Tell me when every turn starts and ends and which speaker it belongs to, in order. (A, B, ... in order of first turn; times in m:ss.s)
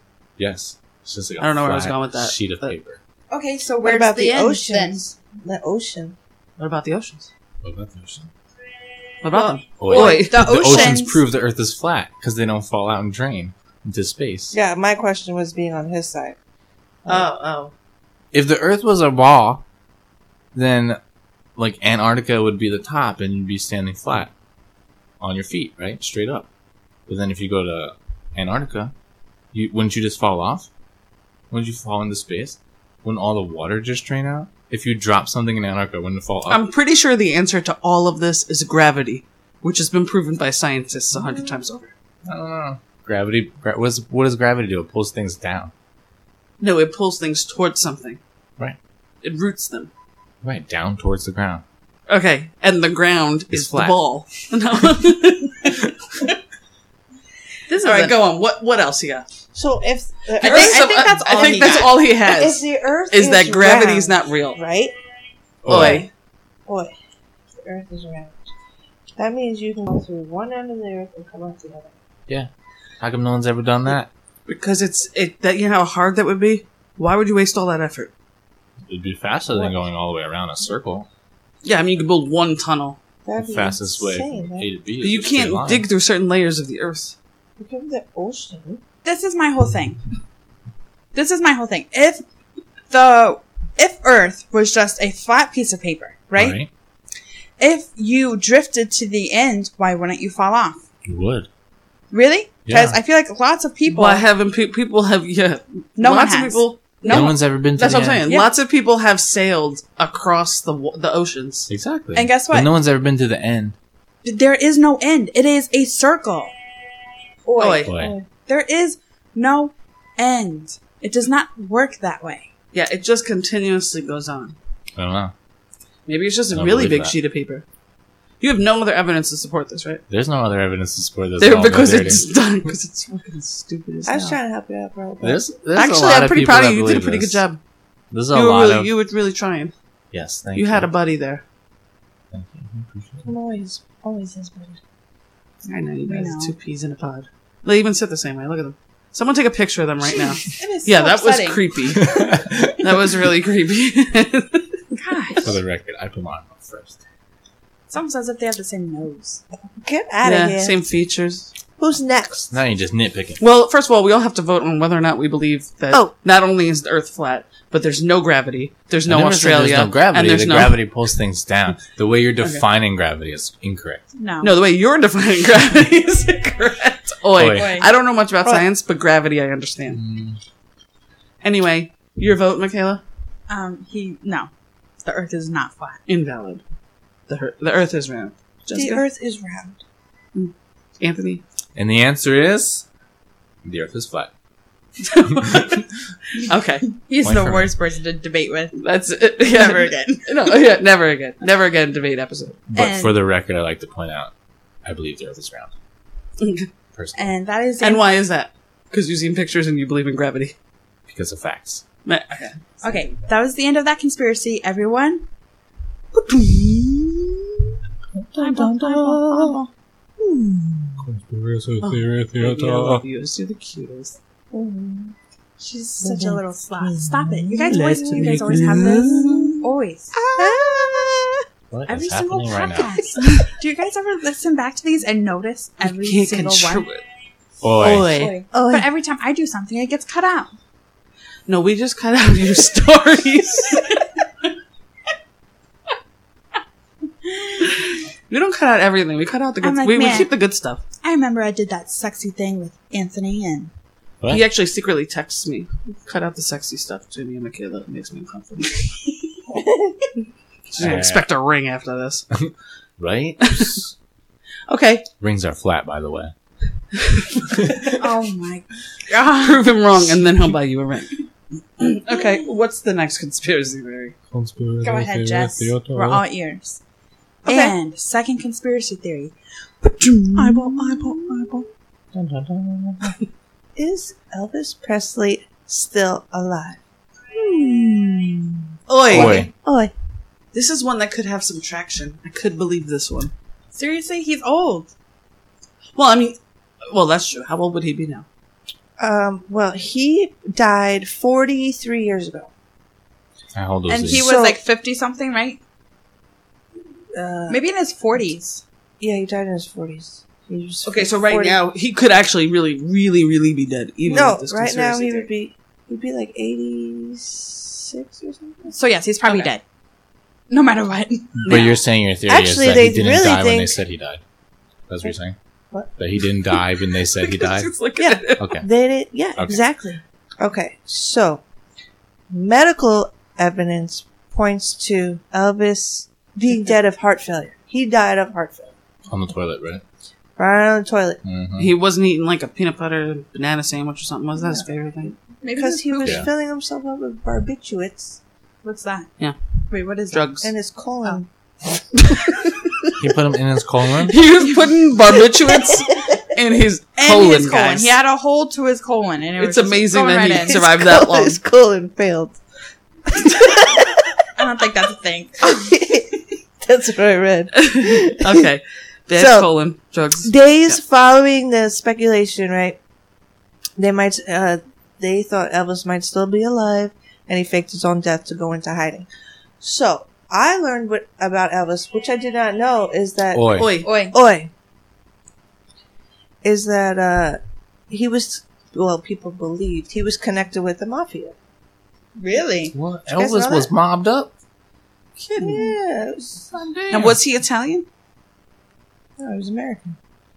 0:00.4-0:03.0 A
0:01.4-0:02.8 B
0:03.3-0:05.0 C
0:03.8-0:06.2 D
0:06.6-0:07.3 B
0:07.6-0:08.3 A
0:09.2-0:10.8 B
0:09.3-0:11.2 C
0:09.8-0:14.5 A
0:14.5-0:16.4 D
0:17.1-0:17.7 B
0:18.3-0:19.6 A
0:20.6-0:21.0 A
0:21.6-0:24.3 A
0:25.2-0:26.5 A
0:27.1-0:28.9 A
0:29.5-0:30.7 A
0:31.5-0:36.6 A
0:36.5-0:41.9 B
0:42.2-0:45.7 A
0:46.6-0:48.2 B
0:49.2-0:49.9 B
0:50.4-0:51.6 A
0:52.1-0:55.9 B
0:53.5-0:54.0 A
0:57.7-0:59.3 B
0:57.8-0:58.1 D
0:59.5-1:04.9 D
1:00.4-1:02.0 C
1:00.4-1:04.6 B
1:05.6-1:06.1 A
1:05.6-1:06.1 B
1:07.6-1:08.5 D
1:09.2-1:12.0 D
1:13.0-1:14.1 A
1:14.5-1:18.1 B
1:18.9-1:21.1 A
1:19.5-1:19.8 D
1:21.6-1:23.0 B
1:23.2-1:24.7 D
1:23.4-1:25.9 A
1:25.0-1:27.2 B
1:27.6-1:28.8 D
1:29.0-1:30.0 C
1:31.1-1:32.2 C
1:32.9-1:36.6 C
1:36.4-1:36.7 A
1:37.6-1:40.8 C
1:41.1-1:41.5 A
1:42.1-1:44.2 C
1:42.7-1:43.0 A
1:43.9-1:51.7 B
1:46.0-1:47.3 C
1:47.1-1:48.2 A
1:48.2-1:48.5 C
1:51.7-1:53.8 A
1:52.1-1:52.7 C
1:54.2-1:56.5 C
1:57.5-1:58.3 D
1:57.6-1:57.9 B
1:57.9-1:58.1 A
1:58.4-2:02.5 C
2:02.7-2:04.6 B
2:05.0-2:05.3 A
2:06.1-2:07.6 B
2:06.5-2:07.2 A
2:08.4-2:10.0 B
2:10.1-2:12.2 A
2:11.4-2:14.4 B
2:14.0-2:15.5 D
2:15.2-2:17.4 A
2:15.7-2:17.6 B
2:18.1-2:18.9 A
2:18.3-2:19.7 B
2:20.1-2:20.9 A
2:20.6-2:21.4 B
2:22.3-2:23.3 A
2:23.2-2:24.8 D
2:25.6-2:34.7 B
2:26.1-2:26.6 C
2:30.1-2:32.1 C
2:32.0-2:32.9 A
2:35.0-2:35.6 C
2:35.4-2:37.0 A
2:37.9-2:39.4 C
2:39.8-2:40.8 D
2:40.2-2:41.5 B
2:41.8-2:42.5 D
2:42.5-2:43.4 A
2:43.4-2:50.8 B
2:49.1-2:54.0 A
2:54.2-2:54.5 C
2:54.4-3:00.0 B
2:57.4-2:57.8 A
2:57.5-2:57.9 C
2:59.9-3:00.4 A
3:01.4-3:03.0 B
3:03.5-3:04.5 C
3:05.0-3:06.0 C
3:06.1-3:06.6 B
3:07.3-3:09.0 B
3:08.7-3:09.8 D
3:10.4-3:11.4 B
3:11.8-3:12.8 A
3:13.6-3:14.3 A
3:15.0-3:15.8 B
3:16.3-3:16.9 B
3:16.9-3:18.8 C
3:17.2-3:17.7 A
3:18.8-3:22.6 B
3:19.4-3:20.3 C
3:22.7-3:24.3 A
3:22.7-3:23.2 C
3:24.8-3:25.7 A
3:26.4-3:26.7 B
3:26.9-3:27.3 A
3:27.2-3:28.0 C
3:27.8-3:30.6 B
3:31.1-3:31.8 A
3:32.0-3:32.6 B
3:32.8-3:35.2 C
3:36.3-3:37.3 D
3:38.4-3:39.6 C
3:38.4-3:39.6 D
3:40.2-3:41.1 D
3:41.0-3:43.0 A
3:41.8-3:44.2 B
3:44.5-3:45.2 D
3:45.6-3:50.2 C
3:46.0-3:46.4 D
3:47.0-3:49.6 D
3:47.7-3:49.6 B
3:50.4-3:51.4 D
3:51.7-3:53.0 A
3:51.9-3:56.9 C
3:55.8-3:57.0 B
3:57.6-3:58.2 A
3:57.8-3:58.4 B
3:58.2-3:58.9 D
3:58.5-4:00.5 C
4:01.5-4:03.9 B
4:07.2-4:07.7 C
4:07.6-4:10.8 B
4:09.6-4:10.3 C
4:11.0-4:13.7 C
4:14.3-4:18.9 B
4:19.5-4:19.9 D
4:20.7-4:22.3 B
4:20.8-4:21.3 A
4:22.3-4:23.9 A
4:24.7-4:25.1 B
4:25.2-4:26.3 A
4:26.9-4:27.5 B
4:27.6-4:27.9 A
4:27.8-4:29.8 C
4:29.4-4:31.2 B
4:31.8-4:34.2 B
4:34.3-4:36.2 A
4:34.8-4:36.8 C
4:37.4-4:37.8 D
4:37.4-4:39.3 C
4:40.3-4:41.6 D
4:40.4-4:40.9 C
4:40.4-4:41.6 B
4:42.1-4:43.2 A
4:43.8-4:46.8 D
4:47.3-4:49.9 D
4:48.9-4:49.5 B
4:49.1-4:49.5 A
4:50.5-4:53.3 B
4:53.7-4:54.9 C
4:56.0-4:58.3 B
4:59.0-5:02.5 D
5:03.5-5:04.2 A
5:03.9-5:05.6 C
5:04.1-5:04.6 D
5:07.1-5:07.7 D
5:07.5-5:08.6 C
5:09.0-5:11.6 D
5:10.8-5:15.3 B
5:14.1-5:18.8 D
5:18.7-5:19.6 C
5:20.5-5:21.7 C
5:21.4-5:24.2 A
5:21.4-5:21.7 B
5:22.3-5:23.8 D
5:24.9-5:25.4 A
5:26.0-5:27.7 A
5:27.2-5:28.5 B
5:28.0-5:31.4 D
5:28.4-5:28.7 A
5:32.3-5:38.8 D
5:39.1-5:39.8 A
5:40.4-5:41.2 D
5:41.2-5:41.7 A
5:41.6-5:45.1 B
5:44.4-5:44.6 D
5:45.4-5:46.2 C
5:45.5-5:48.2 D
5:46.0-5:46.3 A
5:48.6-5:49.1 C
5:49.7-5:50.2 C
5:50.1-5:50.5 B
5:50.4-5:51.9 D
5:53.0-5:54.2 A
5:54.1-5:57.9 B
5:55.5-5:56.2 D
5:57.0-6:00.6 C
5:59.4-6:01.4 B
6:00.5-6:02.4 D
6:03.1-6:04.1 D
6:04.4-6:05.6 C
6:05.4-6:08.5 D
6:07.5-6:10.8 B
6:09.1-6:09.5 D
6:10.2-6:12.8 D
6:13.8-6:19.1 D
6:19.6-6:24.5 D
6:23.3-6:23.7 A
6:23.6-6:23.9 B
6:23.8-6:24.2 C
6:26.4-6:31.4 D
6:32.2-6:32.8 C
6:32.7-6:34.3 A
6:33.1-6:33.7 D
6:35.2-6:35.7 B
6:35.4-6:37.1 D
6:36.9-6:37.9 B
6:39.2-6:40.0 D